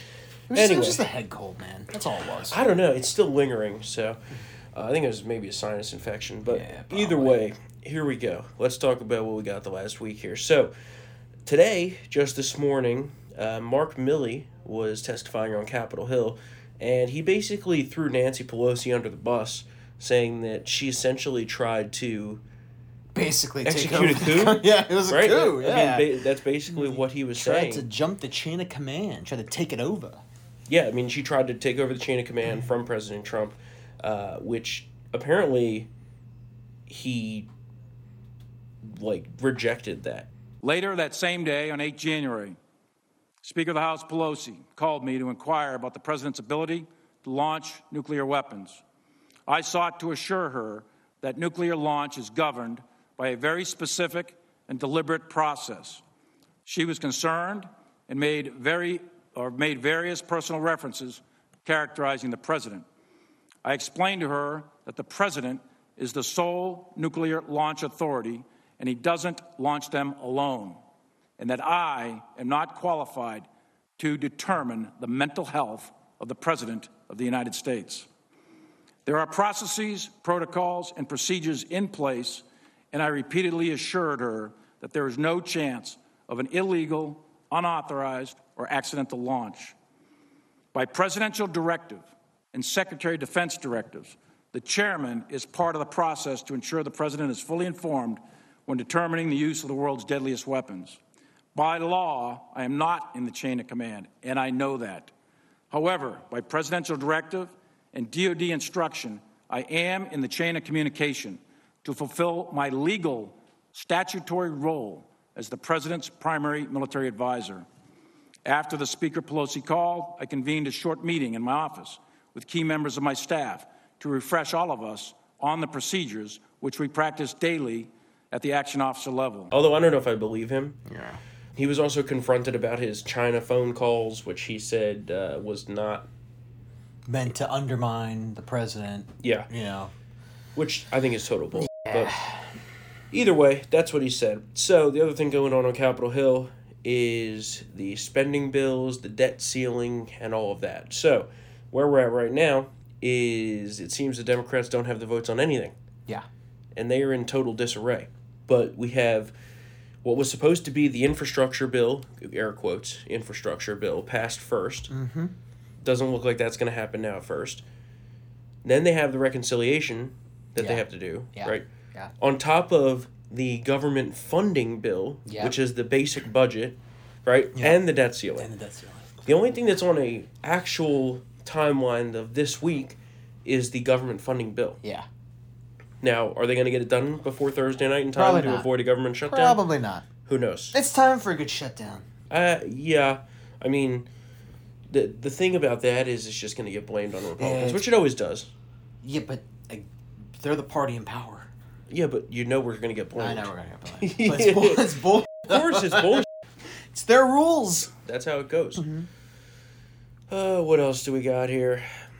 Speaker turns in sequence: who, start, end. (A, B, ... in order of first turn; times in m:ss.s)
0:00.5-0:02.6 A
0:00.5-0:01.0 B
0:02.5-0:04.2 B
0:04.7-0:10.7 B
0:06.5-0:07.4 A
0:11.4-0:22.4 B
0:23.1-0:26.2 A
0:23.6-0:27.8 B
0:26.7-0:30.2 A
0:30.7-0:35.9 B
0:36.9-0:37.5 B
0:38.8-0:40.3 B
0:40.6-0:42.6 C
0:43.4-0:48.8 C
0:49.5-0:56.0 C
0:56.6-1:02.8 C
1:03.6-1:10.8 C
1:11.4-1:13.4 C
1:14.0-1:18.1 C
1:19.0-1:29.7 C
1:30.7-1:41.0 C
1:41.5-1:45.1 C
1:45.7-1:57.6 C
1:58.4-2:09.5 C
2:09.5-2:10.8 B
2:10.9-2:11.2 A
2:11.5-2:16.1 B
2:17.1-2:19.9 A
2:19.2-2:19.5 B
2:20.6-2:22.1 B
2:21.5-2:22.5 A
2:23.1-2:35.7 B
2:36.8-2:39.3 B
2:40.0-2:44.9 B
2:44.9-2:45.3 A
2:45.8-2:47.6 B
2:48.6-2:51.6 B
2:50.6-2:52.1 A
2:52.2-2:58.5 B
2:55.3-2:55.5 A
2:57.5-2:57.8 A
2:58.3-2:59.3 A
2:59.2-3:04.8 B
3:06.0-3:09.6 B
3:08.1-3:08.7 A
3:09.2-3:10.1 A
3:10.2-3:10.7 B
3:10.7-3:12.0 A
3:12.3-3:14.1 B
3:14.9-3:18.5 B
3:17.4-3:17.9 A
3:19.0-3:19.9 A
3:20.4-3:21.5 A
3:21.9-3:24.8 B
3:23.2-3:26.2 A
3:25.4-3:26.2 B
3:26.9-3:27.9 A
3:28.0-3:28.8 B
3:28.8-3:29.1 A
3:30.3-3:31.9 B